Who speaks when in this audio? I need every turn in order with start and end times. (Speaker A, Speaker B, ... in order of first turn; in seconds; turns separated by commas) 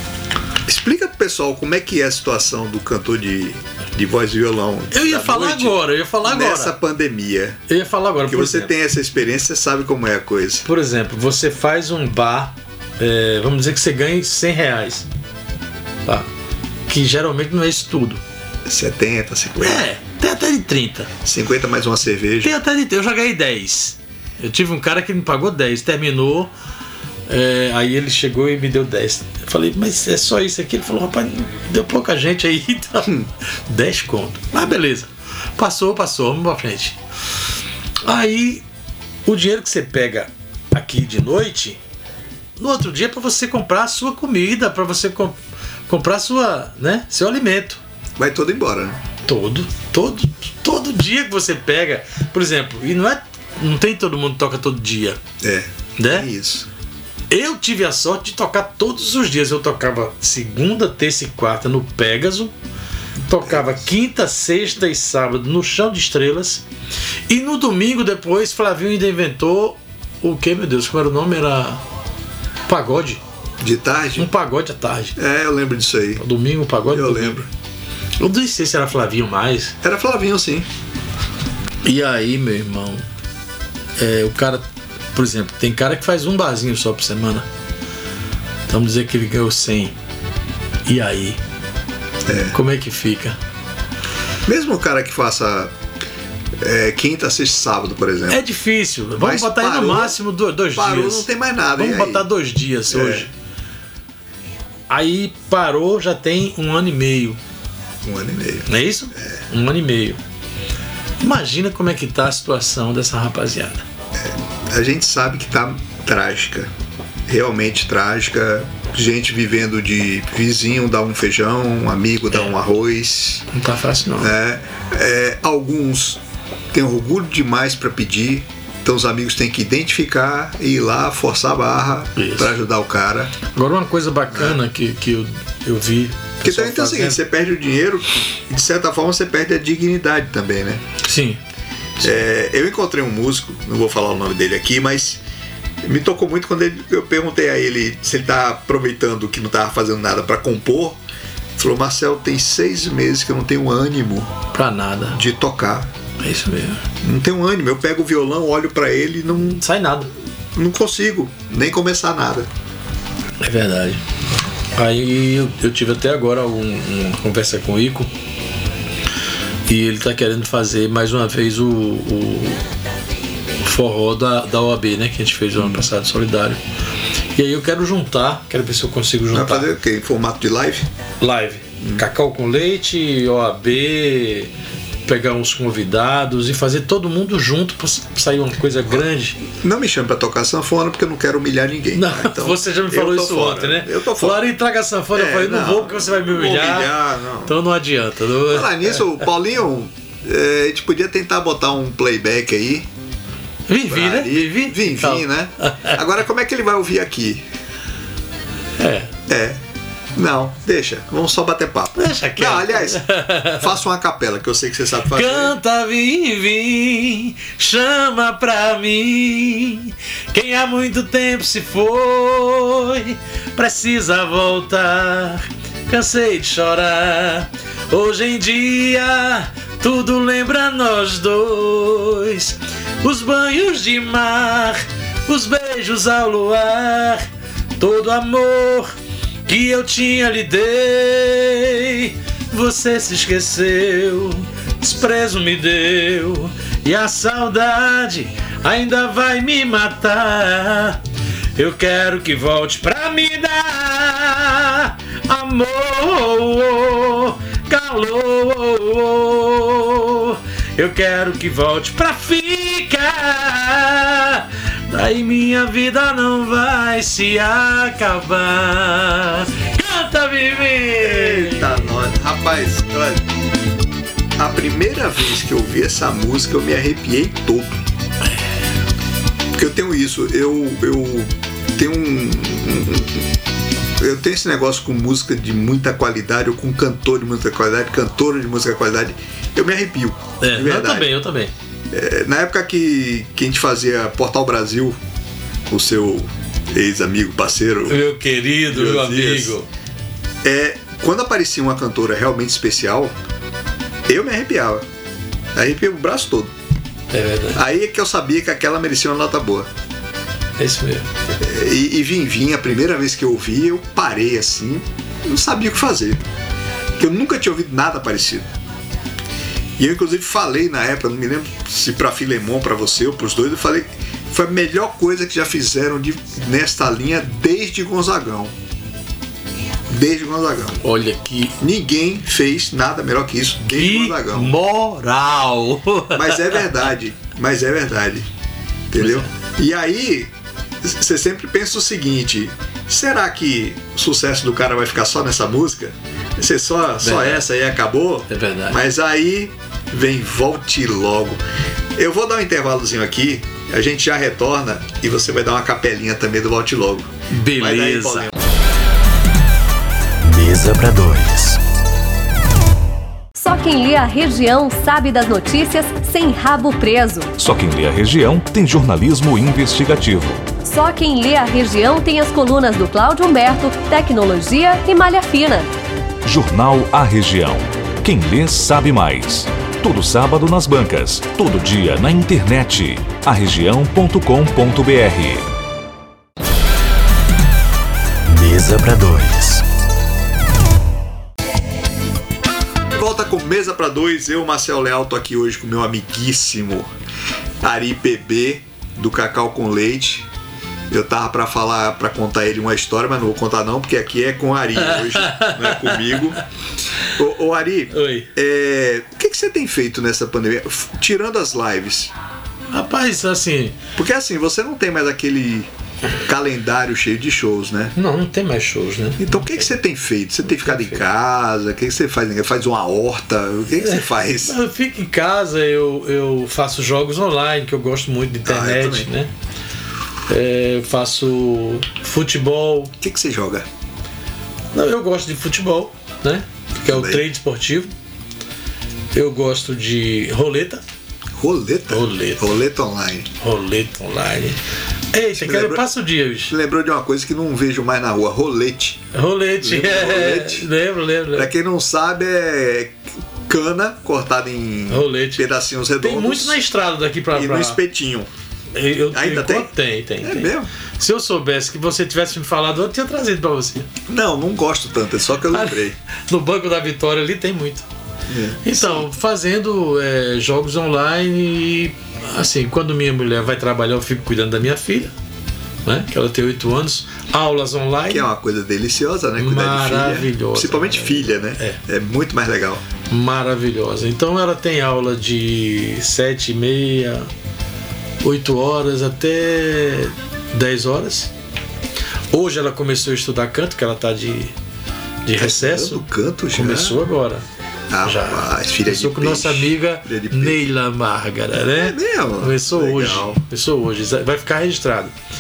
Speaker A: 0.7-7.6, Speaker B: 4.9-6.8, Speaker B: 7.7-8.7, Speaker A: 8.3-10.7, Speaker B: 10.7-15.1, Speaker B: 16.9-18.2, Speaker A: 18.7-19.9, Speaker B: 19.6-21.1, Speaker A: 21.2-22.6, Speaker B: 22.4-26.5, Speaker B: 27.3-37.0, Speaker B: 38.0-38.6, Speaker B: 39.3-41.8, Speaker B: 42.6-47.8, Speaker A: 48.2-49.0, Speaker B: 49.2-55.2, Speaker A: 55.4-56.7, Speaker B: 56.0-56.3, Speaker B: 57.3-62.5, Speaker B: 63.3-66.7, Speaker A: 63.5-63.7, Speaker B: 67.3-71.8, Speaker B: 72.7-73.2, Speaker A: 73.6-74.3, Speaker B: 74.2-75.2, Speaker A: 75.2-76.2, Speaker B: 76.2-77.5, Speaker A: 76.9-77.5, Speaker B: 78.2-79.8, Speaker A: 79.8-80.7, Speaker B: 81.8-83.1, Speaker B: 84.0-87.5, Speaker B: 88.7-90.0, Speaker B: 90.9-91.4, Speaker A: 92.2-92.5, Speaker B: 92.5-93.4, Speaker A: 94.5-95.7, Speaker A: 96.6-98.4, Speaker B: 98.3-103.3, Speaker A: 99.2-100.2, Speaker A: 100.7-102.3, Speaker A: 102.9-103.3, Speaker B: 104.9-107.4, Speaker A: 108.0-109.4, Speaker B: 108.7-110.2, Speaker B: 111.2-113.9, Speaker A: 114.2-116.7, Speaker A: 117.3-123.5, Speaker B: 123.5-124.3, Speaker A: 124.2-133.4, Speaker B: 132.2-132.6, Speaker B: 133.5-137.2, Speaker A: 134.3-134.6, Speaker A: 136.4-140.8, Speaker B: 141.0-141.4, Speaker A: 142.0-145.2, Speaker A: 145.8-151.0, Speaker A: 151.6-154.3, Speaker B: 154.5-155.2, Speaker A: 155.2-155.9, Speaker B: 156.2-156.8, Speaker A: 157.0-159.6, Speaker B: 159.5-160.1, Speaker A: 160.6-162.5, Speaker B: 163.4-164.0, Speaker B: 164.8-168.1, Speaker B: 169.7-172.7, Speaker B: 173.6-176.6, Speaker A: 175.6-175.8, Speaker B: 177.3-179.7, Speaker A: 179.3-180.9, Speaker B: 181.2-184.5, Speaker B: 185.1-189.4, Speaker A: 189.5-194.5, Speaker B: 191.9-199.2, Speaker A: 195.1-197.5, Speaker A: 198.5-202.9, Speaker B: 203.7-206.0, Speaker A: 203.9-207.4, Speaker B: 208.8-209.1, Speaker A: 209.3-209.6, Speaker A: 210.2-215.5, Speaker B: 212.0-213.7, Speaker B: 215.1-237.2, Speaker B: 237.8-238.9, Speaker B: 239.5-251.0, Speaker B: 251.6-271.9, Speaker A: 271.0-273.2, Speaker A: 274.4-277.8, Speaker A: 279.5-283.3, Speaker A: 284.0-291.1, Speaker B: 290.4-291.5, Speaker A: 291.9-295.0, Speaker A: 295.7-298.0, Speaker B: 297.9-299.7, Speaker A: 298.7-299.6, Speaker A: 300.4-303.1, Speaker A: 304.1-304.9, Speaker A: 305.6-306.5, Speaker B: 307.1-307.6, Speaker A: 307.6-309.7, Speaker B: 310.6-311.1, Speaker A: 311.4-316.2, Speaker A: 317.0-318.5, Speaker A: 319.8-328.5, Speaker A: 329.9-330.8, Speaker B: 330.8-331.6, Speaker A: 331.6-334.6, Speaker B: 333.7-336.7, Speaker A: 336.1-338.3, Speaker A: 338.9-340.3, Speaker B: 339.0-339.3, Speaker A: 340.8-351.4, Speaker B: 347.0-347.4, Speaker B: 348.3-348.8, Speaker A: 352.0-358.3, Speaker B: 357.3-358.3, Speaker C: 360.2-361.6, Speaker D: 363.4-367.3, Speaker E: 367.4-370.4, Speaker D: 370.6-375.7, Speaker E: 376.2-385.5, Speaker C: 388.3-389.6, Speaker A: 392.9-396.9, Speaker A: 397.6-400.3, Speaker A: 400.9-406.4, Speaker B: 404.8-406.4, Speaker A: 407.1-412.1, Speaker B: 407.9-408.3, Speaker B: 412.7-413.8, Speaker A: 414.0-417.9, Speaker B: 418.0-419.7, Speaker A: 419.2-424.6, Speaker B: 420.5-421.0, Speaker B: 423.8-429.3, Speaker A: 428.4-429.1, Speaker B: 430.3-432.9, Speaker A: 433.0-433.7, Speaker B: 434.7-437.9, Speaker A: 436.8-437.2, Speaker B: 439.1-440.8, Speaker A: 441.4-443.3, Speaker B: 441.9-442.6, Speaker B: 443.4-444.6, Speaker B: 445.1-446.5, Speaker A: 445.4-445.8, Speaker A: 446.5-449.1, Speaker B: 449.1-451.5, Speaker A: 449.6-450.7, Speaker A: 451.3-456.6, Speaker B: 454.9-457.8, Speaker A: 457.3-458.3, Speaker B: 458.7-463.9, Speaker A: 459.1-459.7, Speaker A: 460.2-460.7, Speaker A: 464.1-466.0, Speaker B: 465.5-467.9, Speaker A: 468.3-469.1, Speaker B: 468.6-475.1, Speaker B: 475.9-478.3, Speaker A: 478.1-482.8, Speaker B: 479.4-481.8, Speaker B: 483.1-487.3, Speaker B: 488.2-491.3, Speaker B: 492.3-494.5, Speaker B: 495.2-497.4, Speaker A: 495.4-497.0, Speaker A: 497.9-500.7, Speaker B: 498.1-505.1, Speaker A: 501.5-503.4